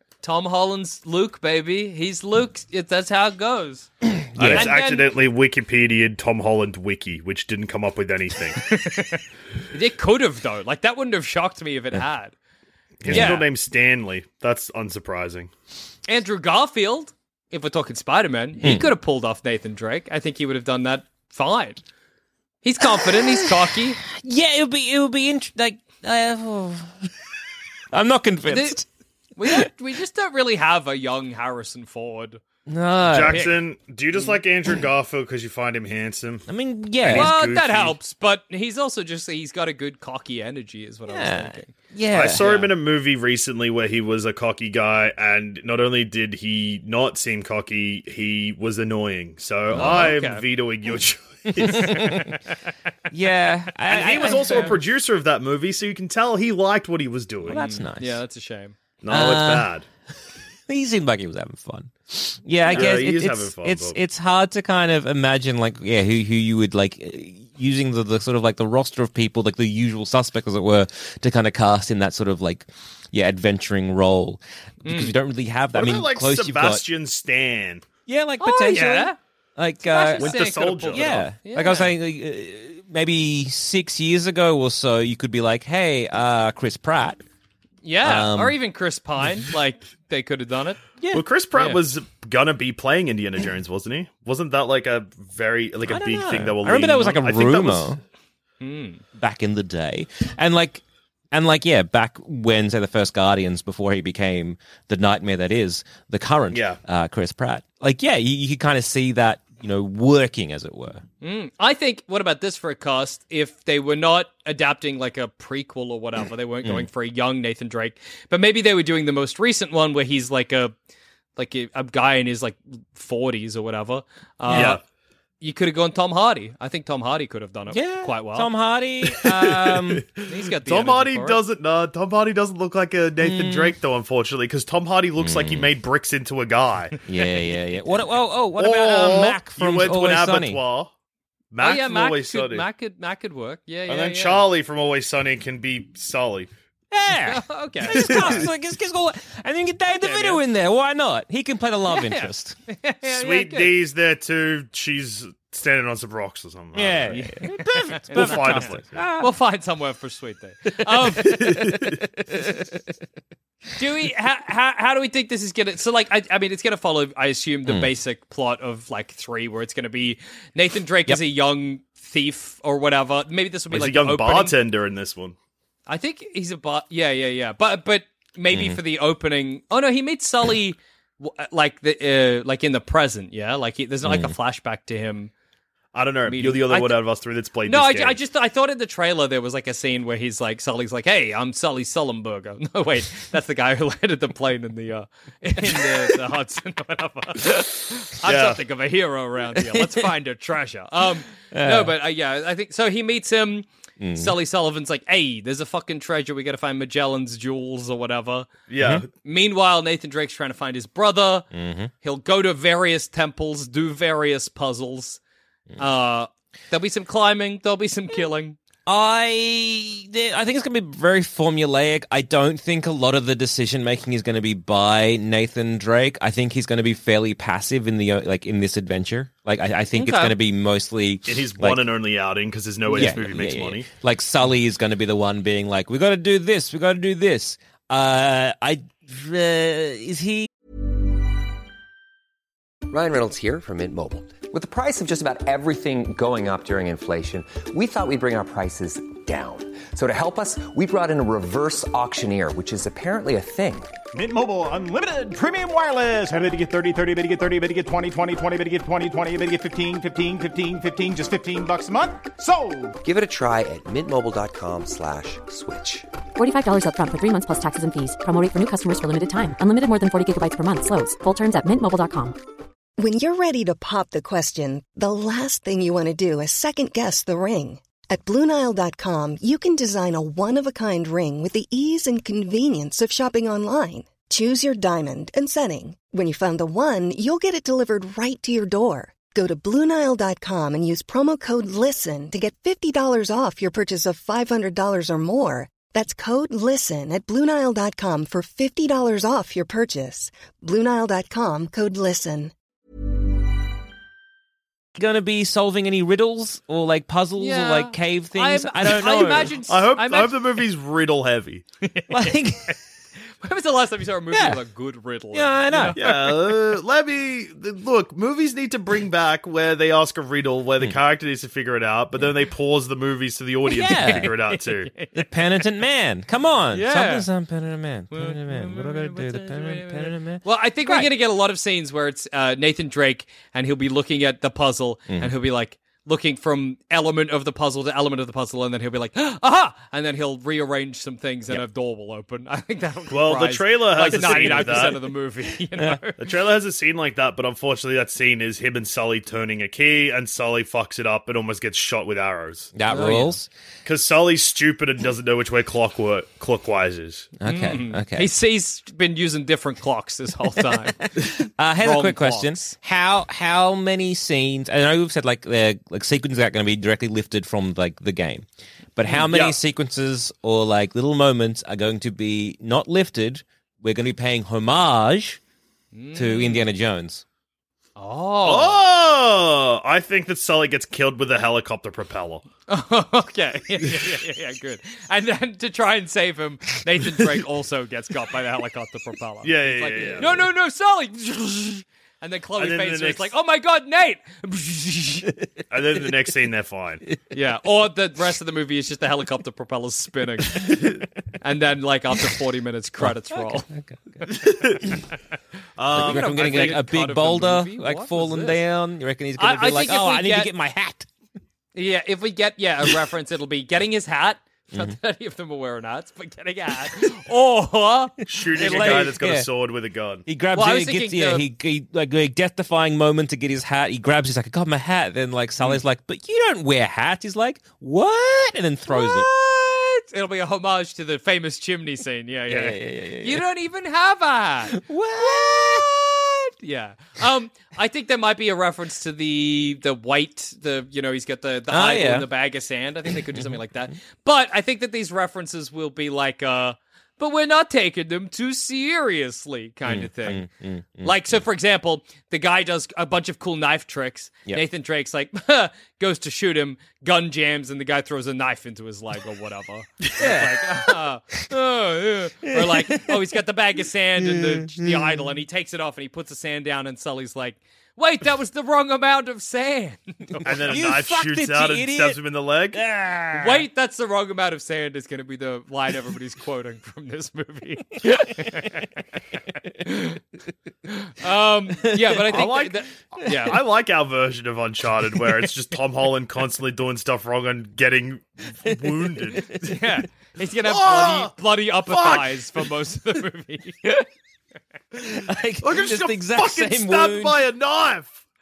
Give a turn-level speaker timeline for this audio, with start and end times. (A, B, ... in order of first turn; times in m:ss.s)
0:00.2-0:03.9 A
0:04.0-0:04.7 B
0:04.4-0:08.6 C
0:04.5-0:05.1 A
0:08.6-0:12.3 A
0:13.0-0:15.5 C
0:13.0-0:13.4 B
0:13.1-0:13.4 A
0:16.1-0:21.8 A
0:18.6-0:18.9 B
0:22.6-0:24.0 A
0:22.8-0:27.1 B
0:27.9-0:28.8 B
0:28.5-0:28.8 A
0:29.3-0:32.4 A
0:32.7-0:33.4 B
0:33.1-0:36.5 C
0:33.3-0:33.5 A
0:36.5-0:37.3 B
0:37.0-0:38.0 C
0:37.1-0:41.7 A
0:41.1-0:42.4 B
0:42.1-0:52.1 C
0:42.4-0:42.7 A
0:49.7-0:50.1 B
0:49.8-0:50.4 A
0:51.6-0:52.3 B
0:53.1-0:54.8 B
0:53.9-0:57.6 C
0:54.0-0:54.8 A
0:57.5-0:58.7 A
0:57.5-0:58.2 B
0:59.0-0:59.8 C
0:59.1-0:59.7 B
1:00.7-1:16.8 B
1:02.7-1:04.0 C
1:14.8-1:15.1 A
1:15.7-1:17.8 C
1:18.1-1:27.2 B
1:18.4-1:19.2 A
1:19.8-1:21.9 A
1:20.2-1:21.2 C
1:27.8-1:30.8 A
1:28.0-1:28.6 B
1:31.1-1:37.9 C
1:31.5-1:31.8 A
1:35.8-1:38.0 B
1:38.6-1:39.0 A
1:39.2-1:51.0 B
1:46.5-1:46.8 C
1:51.2-2:00.7 A
2:01.4-2:04.8 A
2:04.5-2:04.8 B
2:04.5-2:04.8 C
2:05.4-2:08.5 A
2:07.7-2:10.0 B
2:09.1-2:17.0 C
2:10.2-2:11.4 A
2:13.2-2:13.8 B
2:15.2-2:15.7 B
2:17.1-2:20.6 B
2:18.6-2:20.9 C
2:21.5-2:22.6 C
2:21.6-2:24.4 A
2:23.9-2:26.5 C
2:26.9-2:32.6 B
2:27.2-2:28.4 A
2:27.9-2:28.5 C
2:29.9-2:30.4 A
2:31.9-2:33.8 A
2:33.0-2:37.2 C
2:36.7-2:39.3 B
2:37.1-2:41.6 A
2:38.1-2:39.0 C
2:41.2-2:42.8 B
2:41.3-2:42.0 C
2:43.8-2:54.6 A
2:47.6-2:47.9 B
2:53.7-2:55.3 C
2:55.9-3:05.3 A
2:58.5-2:58.8 B
3:04.0-3:04.3 B
3:05.9-3:08.2 C
3:06.2-3:07.0 A
3:07.7-3:28.5 A
3:18.2-3:18.6 C
3:21.5-3:21.9 B
3:24.0-3:24.4 B
3:28.7-3:29.1 C
3:29.2-3:31.5 A
3:31.5-3:31.9 B
3:32.0-3:35.2 A
3:35.8-3:38.6 A
3:38.9-3:51.8 B
3:49.9-3:50.3 A
3:51.3-3:53.9 C
3:52.9-3:53.2 A
3:52.9-4:00.5 B
4:02.9-4:13.9 D
4:14.1-4:22.9 E
4:23.0-4:26.1 D
4:26.4-4:32.3 F
4:33.0-5:02.5 G
5:05.0-5:09.5 B
5:07.4-5:10.4 A
5:09.6-5:11.6 C
5:11.8-5:12.7 A
5:12.1-5:12.8 B
5:13.4-5:16.2 A
5:14.3-5:14.6 B
5:15.3-5:16.0 B
5:15.9-5:24.9 C
5:23.6-5:24.3 B
5:23.9-5:25.3 A
5:25.1-5:31.1 B
5:26.7-5:27.3 A
5:28.1-5:46.2 A
5:43.1-5:45.0 C
5:44.1-5:44.9 B
5:46.2-5:52.7 C
5:52.7-5:53.5 B
5:52.9-5:53.4 A
5:53.8-5:57.3 C
5:57.4-5:58.3 B
5:57.4-6:02.7 A
6:01.0-6:15.4 B
6:09.3-6:09.6 C
6:15.9-6:16.6 A
6:16.1-6:17.2 B
6:18.0-6:18.9 A
6:18.4-6:22.4 C
6:22.7-6:35.3 A
6:29.4-6:30.4 C
6:32.6-6:33.3 C
6:35.7-6:37.0 C
6:37.3-6:40.8 A
6:41.4-6:43.7 A
6:43.0-6:45.0 B
6:44.3-6:44.8 C
6:45.8-6:46.7 C
6:45.9-6:51.1 B
6:45.9-6:48.6 A
6:49.4-6:50.5 A
6:51.7-6:59.1 A
6:58.3-7:00.2 C
6:58.6-6:59.5 B
7:00.2-7:09.3 B
7:00.5-7:01.4 A
7:08.9-7:30.5 A
7:12.5-7:13.4 B
7:14.7-7:15.9 B
7:21.7-7:22.3 B
7:23.3-7:23.6 B
7:29.8-7:31.3 B
7:31.0-7:50.6 A
7:40.2-7:40.7 B
7:42.4-7:43.2 B
7:44.2-7:45.3 B
7:50.4-7:52.2 B
7:50.4-7:52.8 C
7:52.7-7:53.6 B
7:53.4-7:58.9 A
7:58.4-7:58.6 B
7:59.8-8:00.2 A
8:00.9-8:03.6 A
8:01.8-8:02.4 B
8:02.3-8:09.8 C
8:09.6-8:14.0 A
8:10.6-8:11.3 C
8:11.9-8:12.5 C
8:15.0-8:17.4 B
8:15.6-8:18.2 C